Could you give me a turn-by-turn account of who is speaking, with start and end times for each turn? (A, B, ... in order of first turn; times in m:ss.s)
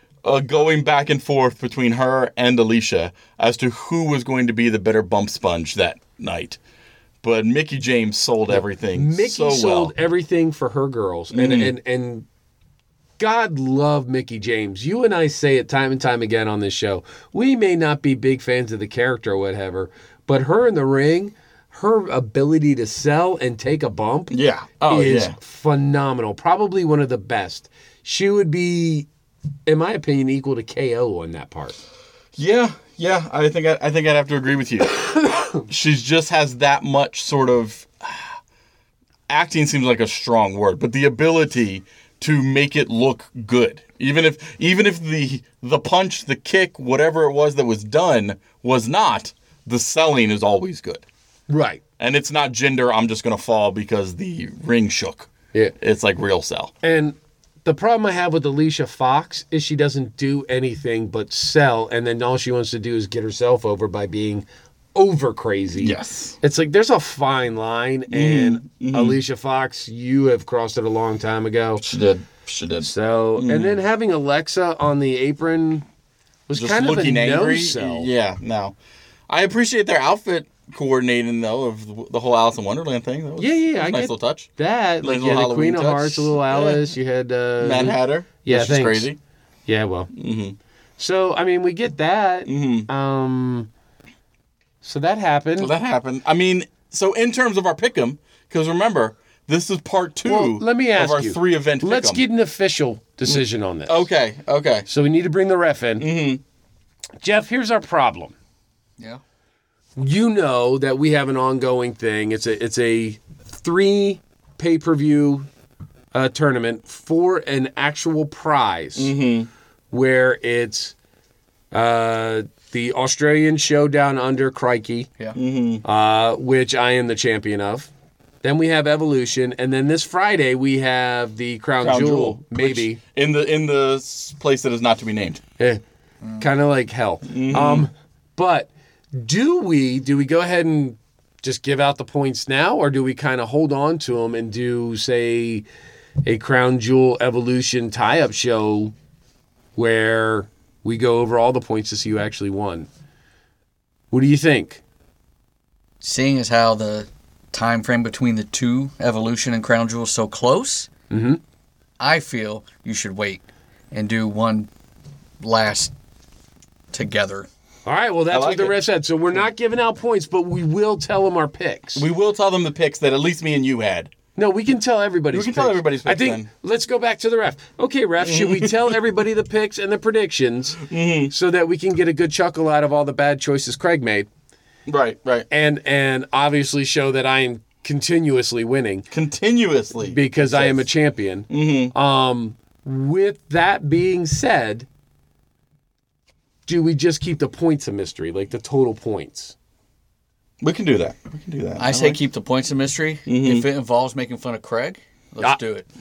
0:00.2-0:06.6 A
0:07.2-0:09.9 A
0:08.5-0:12.3 B
0:11.3-0:11.7 A
0:13.2-0:24.3 B
0:24.3-0:25.4 A
0:24.9-0:29.1 B
0:29.7-0:31.8 B
0:32.4-0:35.1 A
0:35.6-0:38.3 A
0:39.3-0:51.0 A
0:51.5-0:51.8 B
0:52.0-0:55.3 A
0:55.8-0:56.7 A
0:56.8-1:11.8 B
1:05.8-1:06.4 A
1:08.1-1:09.2 A
1:11.8-1:13.8 A
1:12.8-1:15.8 B
1:16.5-1:18.1 B
1:16.6-1:18.7 A
1:19.3-1:24.5 A
1:23.4-1:29.1 B
1:25.0-1:26.8 A
1:27.6-1:29.2 A
1:29.7-1:30.1 B
1:30.1-1:30.6 A
1:31.0-1:33.7 B
1:32.5-1:32.9 A
1:34.8-1:35.7 B
1:35.6-1:42.2 A
1:40.2-1:44.1 B
1:43.3-1:44.9 A
1:44.9-1:46.1 B
1:46.0-1:46.4 A
1:47.2-1:48.3 B
1:50.0-1:55.5 B
1:56.1-1:59.1 B
1:59.0-1:59.5 A
1:59.9-2:01.0 B
2:01.7-2:05.1 B
2:05.4-2:05.8 A
2:05.8-2:07.9 B
2:08.4-2:13.0 B
2:11.8-2:15.4 A
2:16.4-2:25.6 B
2:17.3-2:17.9 A
2:26.2-2:28.9 B
2:29.8-2:32.9 B
2:34.1-2:34.8 B
2:36.0-2:40.9 C
2:41.1-2:41.4 B
2:42.0-2:44.7 C
2:45.4-2:45.9 C
2:46.9-2:47.5 C
2:47.9-2:52.0 B
2:48.3-2:48.8 A
2:52.0-2:54.1 A
2:54.4-3:04.3 B
2:55.3-2:56.5 A
2:58.2-2:59.0 A
3:00.9-3:01.3 A
3:04.9-3:05.5 A
3:05.5-3:09.1 B
3:09.1-3:10.8 A
3:10.1-3:14.9 B
3:11.5-3:11.9 A
3:16.7-3:19.6 B
3:20.6-3:22.2 A
3:21.8-3:25.9 C
3:23.3-3:23.7 A